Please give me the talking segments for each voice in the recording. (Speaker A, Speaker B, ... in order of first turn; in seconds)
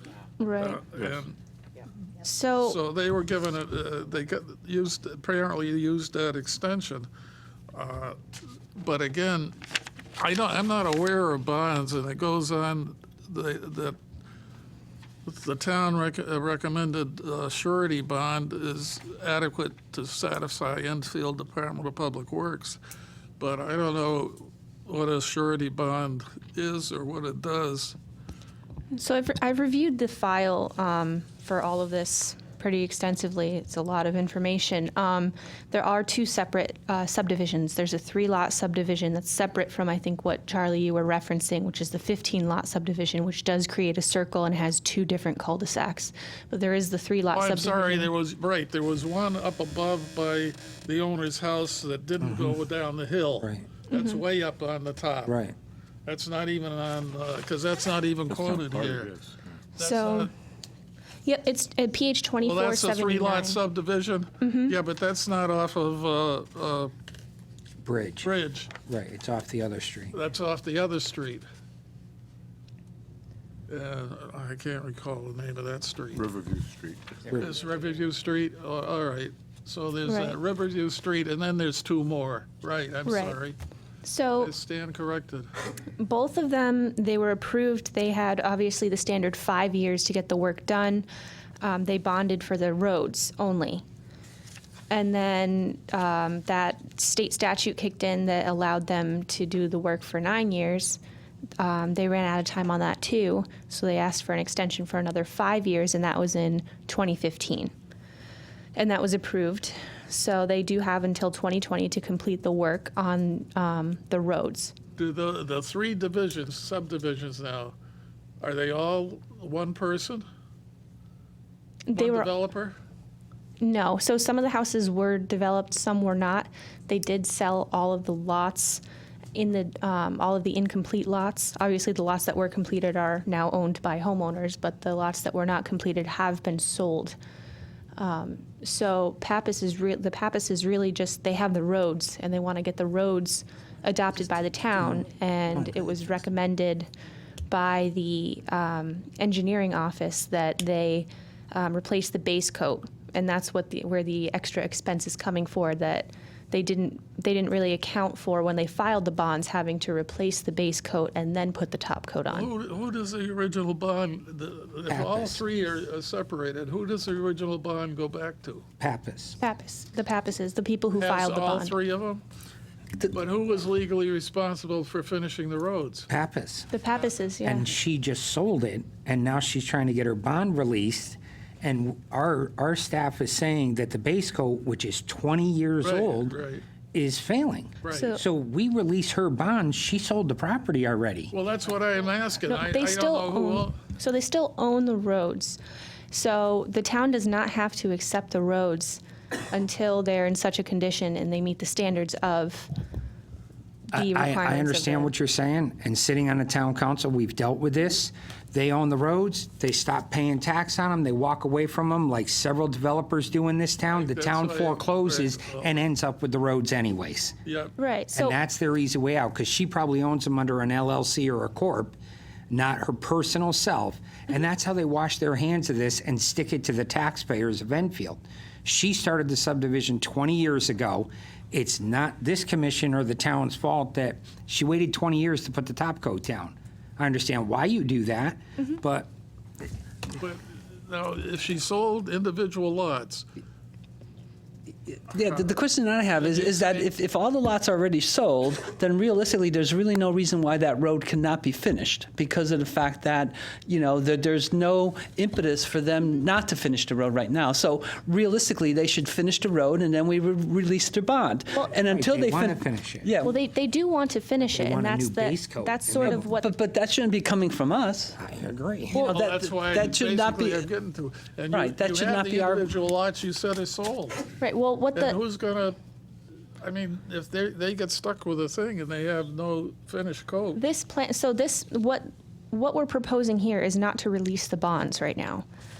Speaker A: 0.4-0.8, 2.2-2.8, 28.9-48.1, 53.9-54.2, 59.8-60.3, 61.2-63.6, 64.4-64.8, 80.1-80.4, 83.1-83.4, 84.0-84.5, 86.0-91.1, 91.6-93.8, 94.9-101.0, 101.6-107.7, 108.8-114.8, 121.9-122.3, 123.6-128.8, 129.3-137.2, 138.0-146.9, 147.5-162.5, 169.4-171.8, 176.7-177.8, 187.9-188.2, 192.5-195.6, 196.1-202.7, 203.9-205.1, 217.8-218.4, 263.2-266.5, 274.4-275.2, 280.6-285.4
Speaker B: 0.6-1.4, 2.6-7.1, 7.7-8.2, 8.8-9.6, 10.2-14.0, 15.3-22.8, 23.4-28.0, 47.3-55.4, 56.1-59.2, 59.8-60.3, 62.4-66.9, 68.2-68.7, 70.1-71.5, 73.7-76.3, 77.3-83.6, 84.4-85.5, 115.0-117.8, 118.4-120.2, 121.9-122.8, 162.3-168.6, 170.9-172.2, 173.1-176.1, 185.8-186.7, 187.8-188.1, 191.3-193.8, 213.9-215.7, 217.5-217.8, 240.2-243.3, 246.1-246.9, 268.9-274.3, 274.9-275.8, 276.6-280.6
Speaker C: 52.2-52.5, 55.3-55.5, 67.8-68.3, 68.9-70.2, 164.9-165.4, 168.8-169.4, 176.1-176.7, 177.4-186.4, 186.9-191.3, 203.9-217.4, 218.1-222.0, 222.5-239.1, 261.9-263.1, 264.5-266.3, 268.2-269.0
Speaker D: 58.4-59.4, 76.2-77.2
Speaker E: 244.9-263.3, 266.0-268.2, 268.9-270.7, 271.5-272.7